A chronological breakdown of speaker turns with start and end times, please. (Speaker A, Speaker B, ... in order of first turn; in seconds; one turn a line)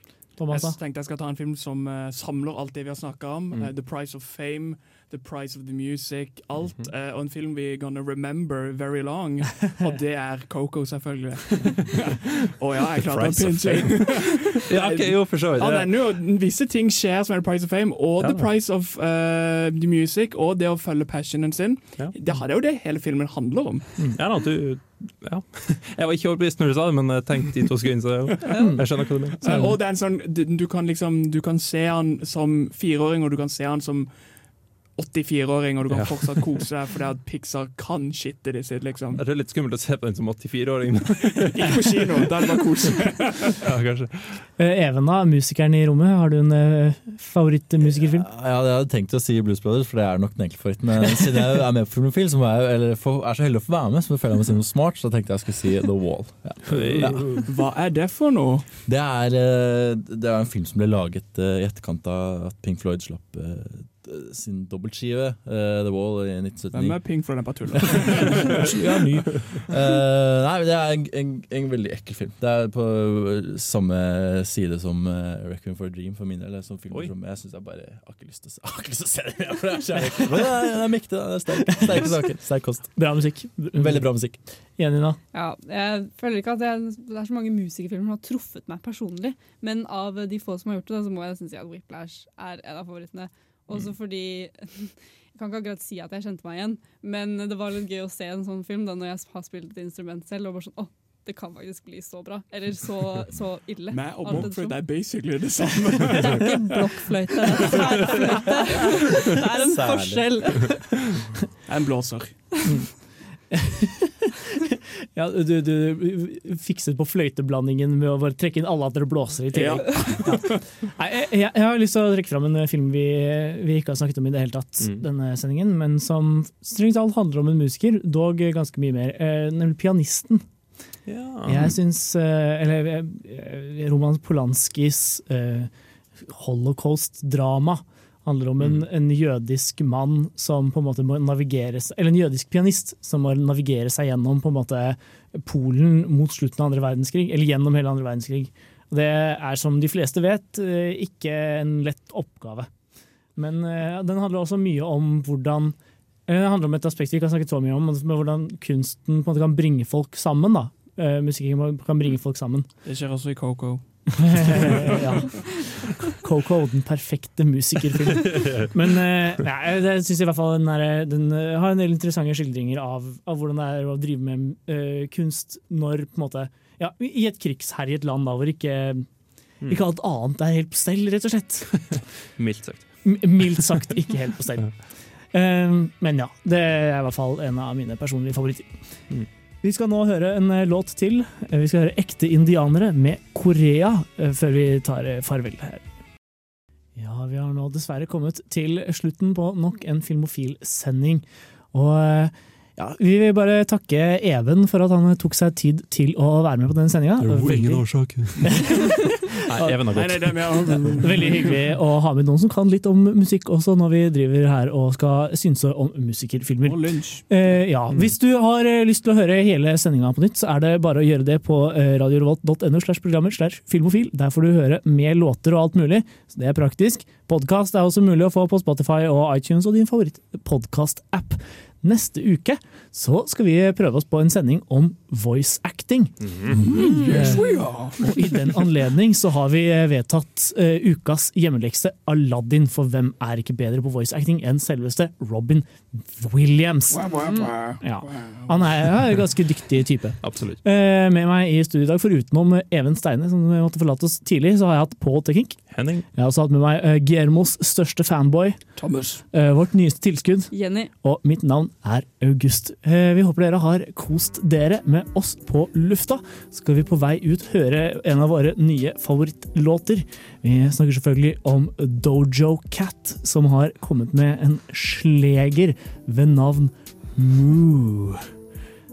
Speaker A: 0.4-0.8
Speaker B: 0.5-23.9
Speaker C: 13.0-15.9
Speaker C: 18.2-18.5
Speaker C: 24.1-29.8
Speaker D: 28.5-28.8
Speaker B: 29.4-34.1
Speaker B: 34.9-39.2
Speaker C: 35.9-36.5
Speaker C: 39.2-42.6
Speaker B: 41.5-43.6
Speaker C: 43.6-44.5
Speaker A: 44.6-48.2
Speaker E: 47.8-57.4
Speaker C: 56.6-57.2
Speaker B: 57.5-58.7
Speaker E: 58.9-84.4
Speaker B: 66.7-68.8
Speaker A: 81.7-82.2
Speaker A: 82.9-85.2
Speaker D: 85.3-105.0
Speaker B: 103.9-106.8
Speaker D: 106.2-110.8
Speaker B: 107.6-108.2
Speaker E: 109.6-110.7
Speaker B: 111.7-112.5
Speaker A: 112.7-114.1
Speaker A: 115.1-130.4
Speaker B: 119.5-120.6
Speaker C: 124.8-125.0
Speaker C: 131.1-131.7
Speaker A: 131.4-152.7
Speaker A: 153.3-155.7
Speaker A: 156.3-162.7
Speaker B: 162.8-164.9
Speaker A: 164.2-179.1
Speaker C: 168.2-168.7
Speaker A: 179.6-182.1
Speaker C: 182.4-183.6
Speaker A: 183.0-189.0
Speaker A: 189.6-195.8
Speaker A: 196.9-209.8
Speaker C: 207.2-211.0
Speaker B: 209.8-211.5
Speaker A: 211.0-278.3
Speaker B: 216.6-217.2
Speaker B: 236.6-238.0
Speaker B: 247.0-248.4
Speaker C: 250.2-250.6
Speaker C: 255.7-256.1
Speaker B: 258.8-259.2
Speaker D: 260.5-260.9